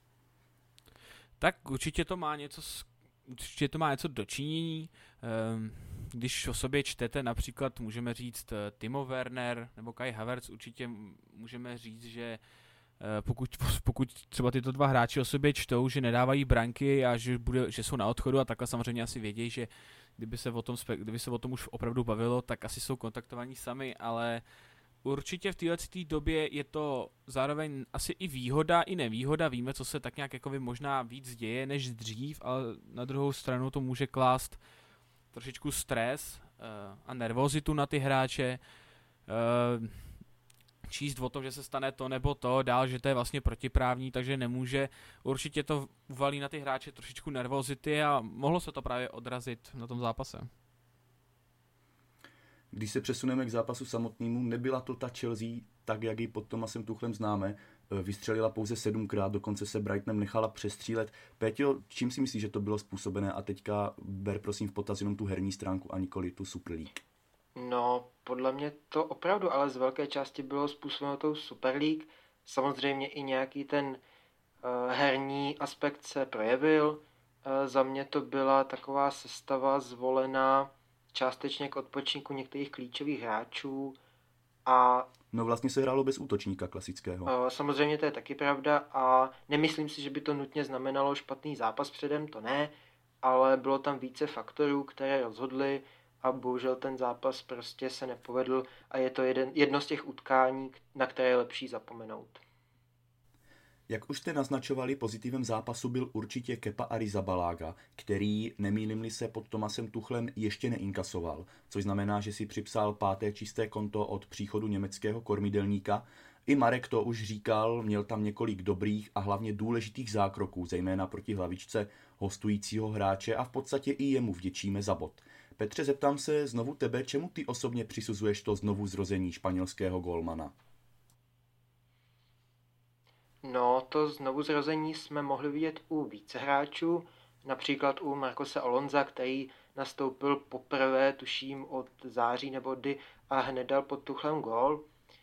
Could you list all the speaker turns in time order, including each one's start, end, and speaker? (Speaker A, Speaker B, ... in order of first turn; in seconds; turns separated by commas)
Speaker A: 1.4-12.4, Speaker A: 13.0-24.4, Speaker A: 25.0-34.6, Speaker A: 35.3-38.6, Speaker A: 39.3-40.2, Speaker A: 40.8-50.5, Speaker B: 52.7-67.0, Speaker C: 67.5-74.0, Speaker C: 74.6-84.0, Speaker C: 84.6-85.1, Speaker B: 85.3-87.3, Speaker C: 87.3-102.4, Speaker B: 103.9-130.5, Speaker C: 133.4-144.9